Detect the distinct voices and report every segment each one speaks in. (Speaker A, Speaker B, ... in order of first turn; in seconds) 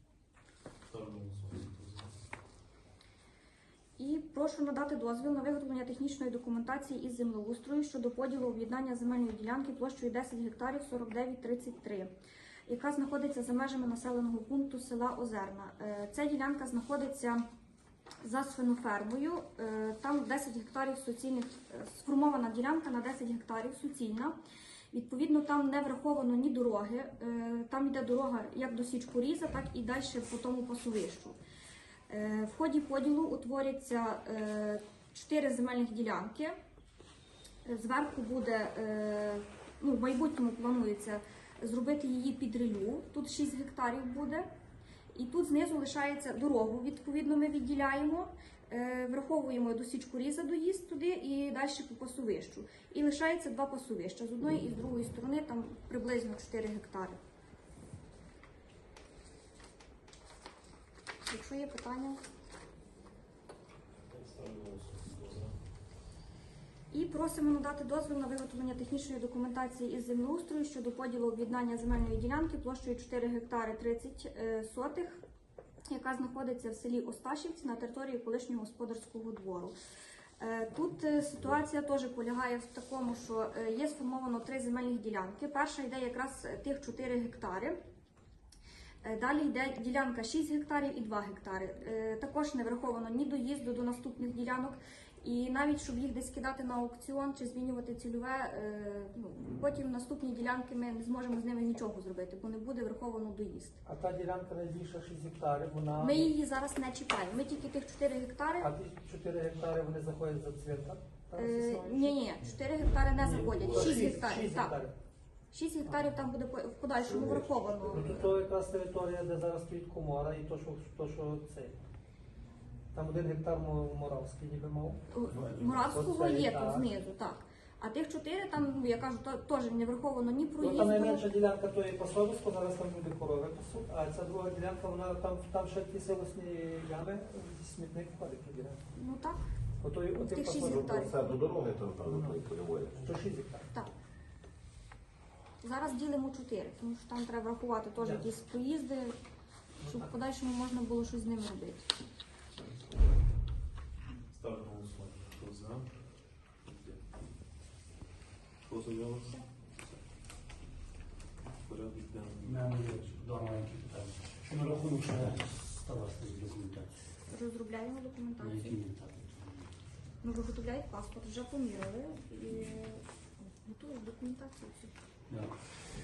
Speaker A: 0.9-2.1, 64.1-65.5, 154.3-155.9, 156.7-157.0, 158.7-159.4, 161.7-162.7
Speaker B: 4.0-12.1, 12.7-17.4, 18.2-24.4, 24.9-31.4, 32.1-36.5, 37.7-44.5, 45.1-57.2, 61.2-62.2, 66.9-75.2, 75.9-79.8, 80.4-87.8, 89.0-103.8, 106.0-108.7, 111.4-114.8, 115.5-118.3, 125.1-131.3, 138.9-139.4, 140.2-141.2, 145.6-149.1, 149.8-151.9, 167.3-168.8, 170.2-174.9
Speaker C: 103.8-106.3, 108.6-112.3, 113.2-114.9, 117.9-121.8, 122.9-125.0, 125.8-126.9, 130.6-138.8, 139.8-141.1, 142.1-142.4, 142.9-143.7, 148.0-148.3
Speaker D: 117.0-118.2, 140.6-143.1
Speaker E: 162.4-166.9, 168.4-169.7